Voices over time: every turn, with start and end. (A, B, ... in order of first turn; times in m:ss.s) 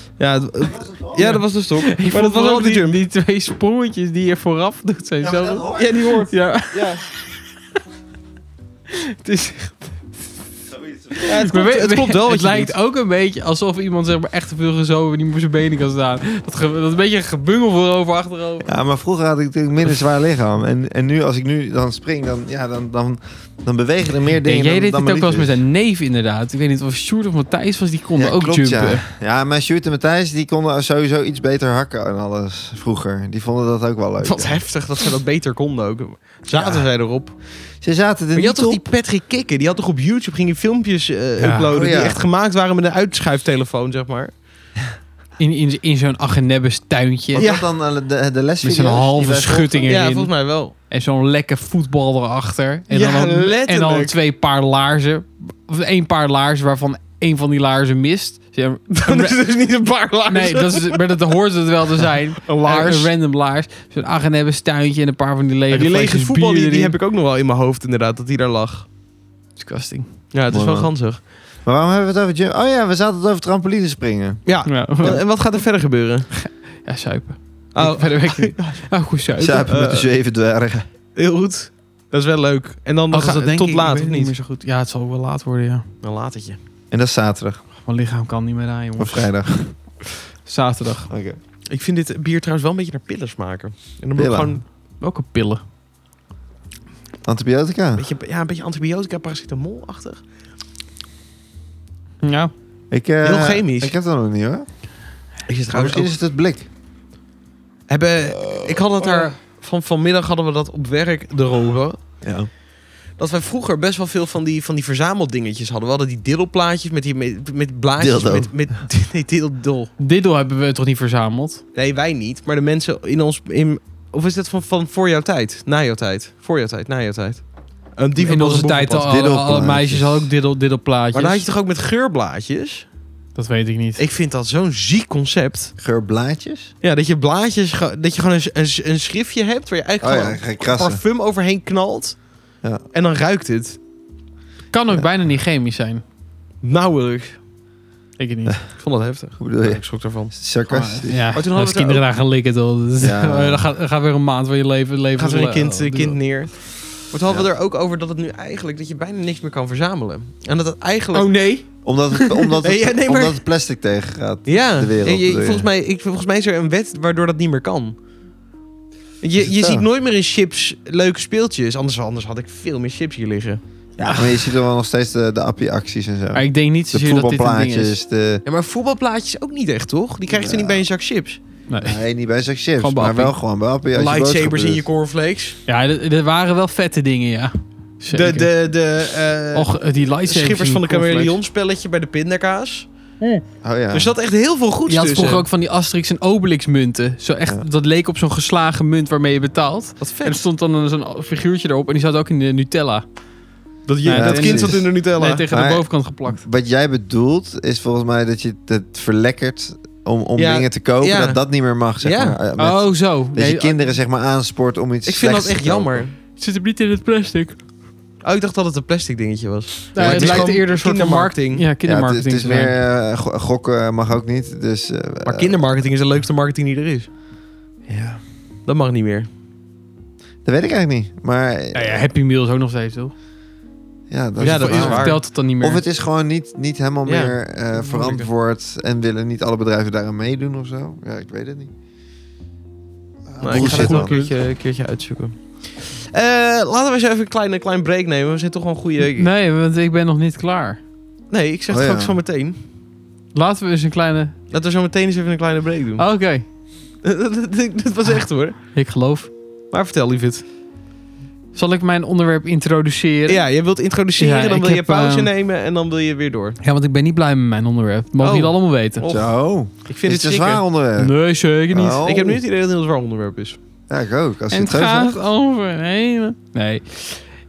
0:00.2-0:03.0 A
0:00.6-0:01.3 B
0:01.2-0:07.2 C
0:05.2-0:06.0 B
0:05.7-0:07.0 A
0:08.9-0:10.0 C
0:10.7-0:11.3 B
0:11.2-0:18.7 C
0:11.2-0:12.7 A
0:18.6-0:25.6 B
0:24.4-0:29.0 C
0:28.2-0:34.6 B
0:34.2-0:37.4 A
0:36.5-0:36.8 B
0:37.8-0:38.8 B
0:38.3-0:44.3 A
0:41.6-0:42.2 B
0:45.4-0:47.4 C
0:47.3-0:50.0 B
0:47.3-0:47.6 A
0:48.6-0:59.5 C
0:49.8-0:50.7 A
0:52.9-0:54.2 A
0:59.0-1:01.0 A
1:00.3-1:06.9 C
1:02.4-1:03.1 A
1:05.7-1:08.8 A
1:09.6-1:10.1 C
1:10.3-1:11.2 A
1:10.5-1:10.9 B
1:11.6-1:14.4 B
1:14.4-1:16.3 A
1:14.6-1:15.2 C
1:16.3-1:20.0 C
1:17.7-1:18.9 A
1:19.4-1:20.8 B
1:19.7-1:20.0 A
1:21.2-1:24.3 A
1:23.1-1:25.8 C
1:26.0-1:26.6 A
1:26.9-1:27.6 B
1:27.8-1:29.3 C
1:29.0-1:29.7 B
1:30.4-1:31.1 C
1:31.1-1:31.4 B
1:31.7-1:34.6 A
1:34.2-1:34.6 B
1:35.0-1:35.6 C
1:37.2-1:38.0 B
1:38.0-1:40.2 A
1:42.2-1:42.5 C
1:42.9-1:44.6 B
1:43.2-1:43.9 A
1:45.5-1:46.1 A
1:45.7-1:46.7 B
1:47.9-1:52.0 A
1:52.2-1:52.5 B
1:53.2-1:59.9 A
1:58.0-1:58.5 B
2:00.0-2:01.6 C
2:01.7-2:07.4 A
2:08.0-2:09.1 A
2:08.2-2:11.5 C
2:09.0-2:10.3 B
2:11.1-2:12.9 A
2:13.3-2:14.0 C
2:14.0-2:15.7 A
2:15.8-2:16.7 B
2:16.8-2:22.2 A
2:20.0-2:21.0 B
2:22.9-2:23.8 A
2:24.7-2:26.0 C
2:26.6-2:27.4 A
2:28.2-2:28.6 C
2:28.7-2:30.3 A
2:29.4-2:31.2 B
2:30.7-2:36.2 C
2:31.3-2:32.0 A
2:33.0-2:33.7 B
2:35.2-2:41.3 A
2:41.1-2:42.5 C
2:41.8-2:45.7 B
2:42.6-2:43.4 A
2:44.4-2:48.0 A
2:49.2-2:53.6 A
2:49.4-2:49.8 B
2:54.0-2:54.5 C
2:54.0-2:58.4 B
2:56.3-2:58.0 C
2:58.4-3:01.4 A
3:00.3-3:00.8 B
3:01.7-3:02.0 C
3:01.8-3:04.8 B
3:02.8-3:03.3 C
3:03.9-3:05.6 A
3:05.7-3:08.5 C
3:08.1-3:09.7 A
3:09.5-3:11.4 C
3:10.2-3:12.9 A
3:13.6-3:14.1 B
3:13.9-3:15.4 A
3:14.9-3:23.0 C
3:20.0-3:20.4 A
3:23.8-3:25.4 A
3:24.0-3:26.4 C
3:24.1-3:24.9 B
3:25.5-3:36.0 B
3:30.4-3:31.4 A
3:32.0-3:32.4 A
3:32.6-3:33.9 C
3:35.0-3:36.2 A
3:36.4-3:37.6 C
3:38.2-3:41.6 A
3:39.9-3:42.8 C
3:40.0-3:40.6 B
3:41.8-3:45.8 B
3:45.2-3:47.1 A
3:47.9-3:48.2 B
3:48.6-3:49.3 A
3:50.4-3:52.1 B
3:51.7-3:53.1 C
3:54.1-4:01.7 B
3:54.4-3:55.2 A
3:54.4-3:55.8 C
3:57.0-3:58.2 A
4:03.3-4:04.1 B
4:03.4-4:09.3 A
4:03.5-4:04.3 C
4:09.2-4:10.8 C
4:11.3-4:12.6 A
4:11.7-4:12.2 B
4:13.3-4:14.4 C
4:14.5-4:16.0 A
4:16.0-4:16.4 C
4:17.0-4:18.6 A
4:18.7-4:19.3 C
4:19.7-4:20.4 A
4:21.5-4:23.5 C
4:23.3-4:26.6 A
4:24.2-4:25.3 C
4:26.6-4:29.0 C
4:28.2-4:29.3 A
4:29.0-4:31.1 B
4:29.8-4:30.6 A
4:31.0-4:32.0 C
4:31.7-4:32.4 B
4:32.0-4:33.6 A
4:33.9-4:35.2 B
4:34.5-4:37.2 C